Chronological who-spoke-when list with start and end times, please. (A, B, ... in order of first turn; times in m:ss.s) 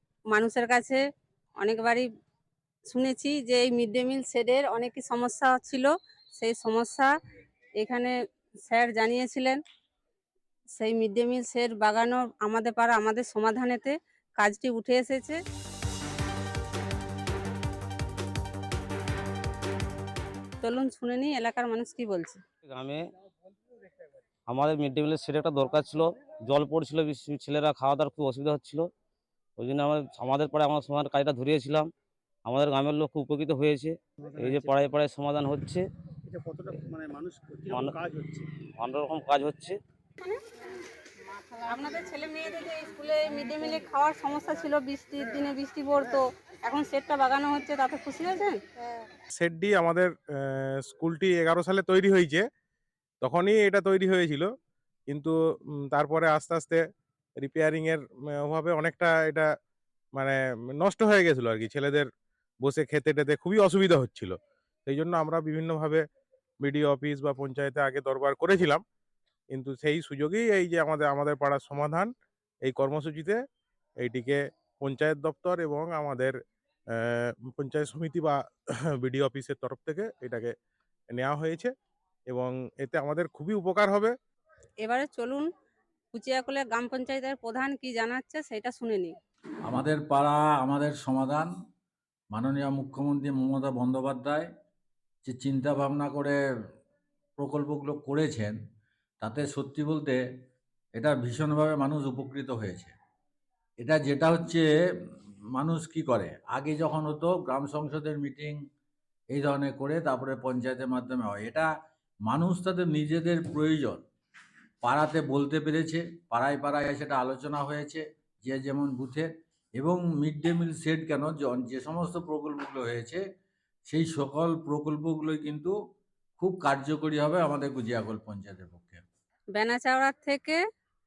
0:00.3-0:01.0 A
0:01.6-0:02.0 A
0:02.9-0:07.1 A
0:07.8-0:08.1 A
0:08.7-0:09.6 A
0:10.8-0:15.4 A
0:20.6-0:22.4 A
0:22.6-0:23.0 B
0:24.5-0:28.8 B
0:29.6-0:31.9 B
0:32.4-0:35.8 B
0:34.4-0:34.8 C
0:36.2-0:38.5 C
0:38.6-0:39.8 B
0:41.4-0:48.6 A
0:49.3-0:52.4 D
0:53.2-0:54.5 D
0:55.9-0:56.8 D
0:57.4-0:59.4 D
1:00.2-1:02.1 D
1:02.6-1:06.0 D
1:06.6-1:08.8 D
1:09.5-1:12.1 D
1:12.6-1:13.4 D
1:14.0-1:16.3 D
1:17.0-1:18.4 D
1:19.0-1:20.5 D
1:21.1-1:21.7 D
1:22.3-1:24.1 D
1:24.8-1:25.5 A
1:26.1-1:29.1 A
1:29.6-1:31.5 E
1:32.3-1:34.5 E
1:35.2-1:36.4 E
1:37.4-1:38.6 E
1:39.2-1:40.2 E
1:41.0-1:42.9 E
1:43.8-1:48.6 E
1:49.3-1:51.7 E
1:52.2-1:54.0 E
1:54.8-2:03.2 E
2:03.9-2:05.8 E
2:06.4-2:09.0 E
2:09.6-2:10.6 A